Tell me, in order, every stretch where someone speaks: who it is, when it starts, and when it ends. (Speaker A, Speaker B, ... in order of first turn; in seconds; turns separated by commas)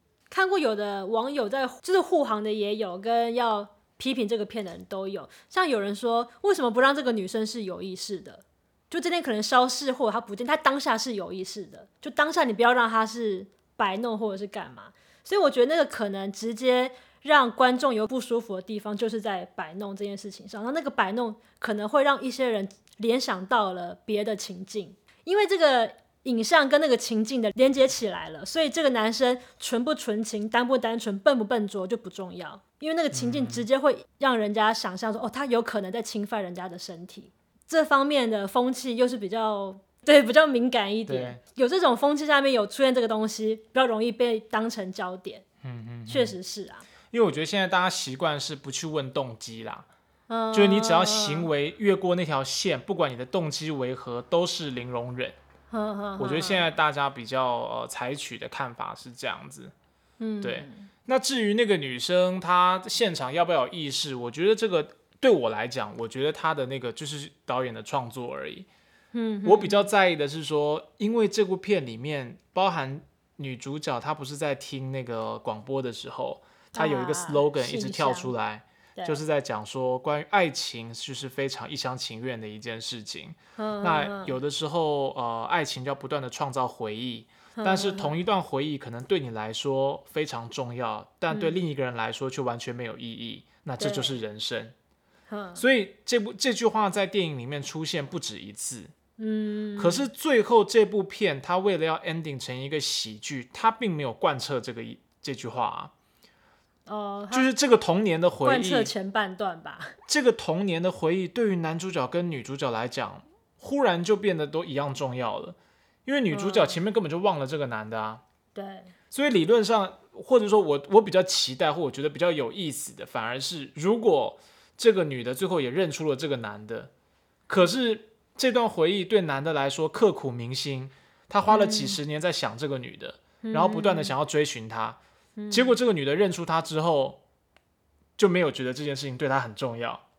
Speaker A: 0.3-45.4, Speaker B: 33.1-33.6, Speaker B: 41.1-41.4, Speaker B: 45.6-46.4, Speaker A: 46.1-46.9, Speaker B: 47.1-49.9, Speaker A: 50.3-51.5, Speaker B: 50.5-55.4, Speaker A: 55.7-56.7, Speaker B: 56.2-59.7, Speaker A: 60.2-60.9, Speaker B: 60.4-68.7, Speaker A: 69.1-69.9, Speaker B: 69.4-94.7, Speaker A: 76.7-78.3, Speaker A: 83.6-84.4, Speaker A: 87.5-88.2, Speaker A: 91.3-91.5, Speaker A: 93.8-94.2, Speaker A: 95.3-95.6, Speaker B: 95.6-98.9, Speaker A: 99.2-100.0, Speaker B: 99.8-105.9, Speaker A: 106.9-107.5, Speaker B: 107.3-108.9, Speaker A: 108.4-109.9, Speaker B: 110.1-118.2, Speaker A: 116.3-116.8, Speaker A: 118.5-118.9, Speaker B: 119.1-126.9, Speaker B: 127.5-135.0, Speaker A: 131.5-132.0, Speaker A: 133.4-134.1, Speaker A: 135.4-135.7, Speaker B: 135.5-137.2, Speaker B: 138.2-140.0